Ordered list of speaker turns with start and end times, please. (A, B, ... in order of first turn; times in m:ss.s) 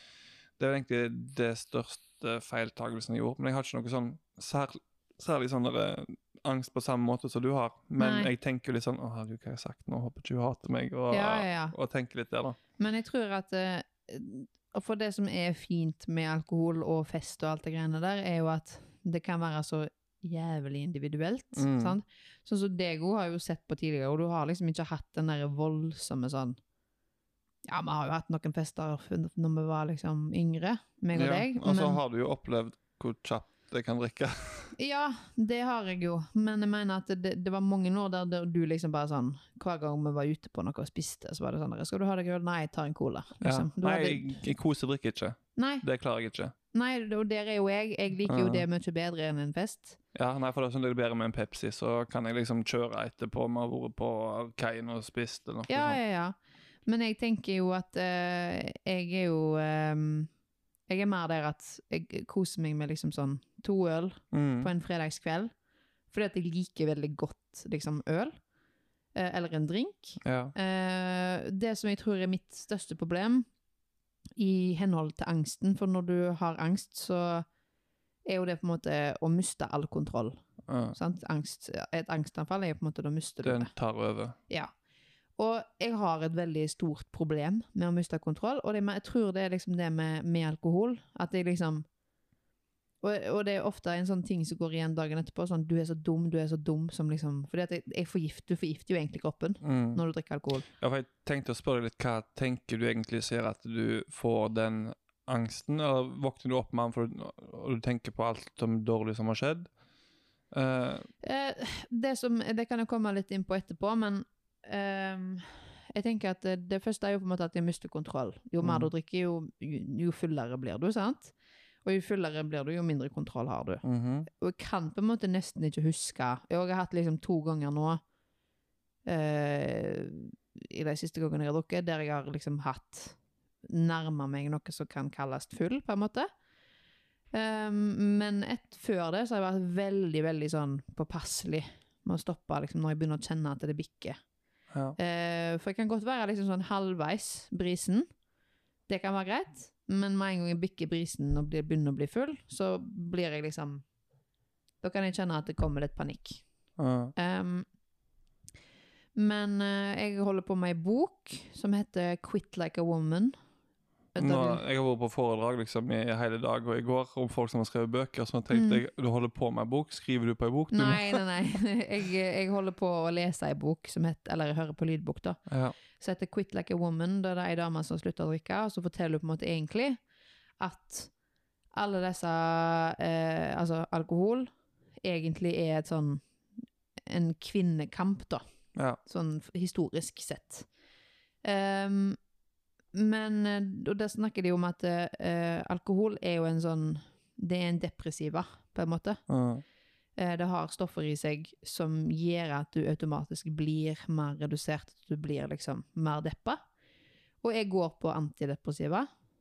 0:00.6-0:12.6 A
0:08.0-0:08.3 B
0:11.1-0:11.7 B
0:12.8-0:26.6 B
0:21.6-0:22.0 A
0:27.7-0:32.0 B
0:31.1-0:34.7 A
0:34.8-0:44.4 B
0:43.4-0:46.5 A
0:45.6-0:45.8 B
0:46.7-0:50.0 B
0:48.3-0:48.6 A
0:50.2-0:56.0 A
0:55.7-0:56.4 B
0:56.9-1:00.3 B
1:00.9-1:05.5 B
1:04.3-1:04.7 A
1:06.1-1:08.4 B
1:09.2-1:13.5 B
1:10.2-1:10.5 A
1:14.4-1:17.5 B
1:18.3-1:20.4 B
1:20.7-1:21.0 A
1:20.9-1:23.7 B
1:23.4-1:24.4 A
1:25.4-1:31.8 B
1:33.0-1:40.7 B
1:39.6-1:40.0 A
1:40.8-1:49.7 A
1:50.5-1:51.1 A
1:51.2-2:08.0 B
1:58.6-1:58.9 A
2:03.8-2:04.3 A
2:09.1-2:16.3 B
2:17.3-2:24.2 B
2:24.7-2:25.0 A
2:25.0-2:28.1 B
2:28.9-2:33.8 B
2:34.8-2:36.4 B
2:36.8-2:37.1 A
2:37.2-2:37.7 B
2:39.2-2:43.4 B
2:44.2-2:44.6 B
2:44.2-2:51.2 A
2:48.5-2:48.8 B
2:50.7-2:55.4 B
2:55.5-2:55.8 A
2:56.0-3:00.0 B
3:00.6-3:01.1 B
3:01.7-3:06.3 B
3:07.1-3:08.4 B
3:09.0-3:10.7 B
3:11.4-3:12.2 B
3:12.9-3:19.2 B
3:19.3-3:19.6 A
3:20.2-3:26.6 B
3:27.4-3:29.1 B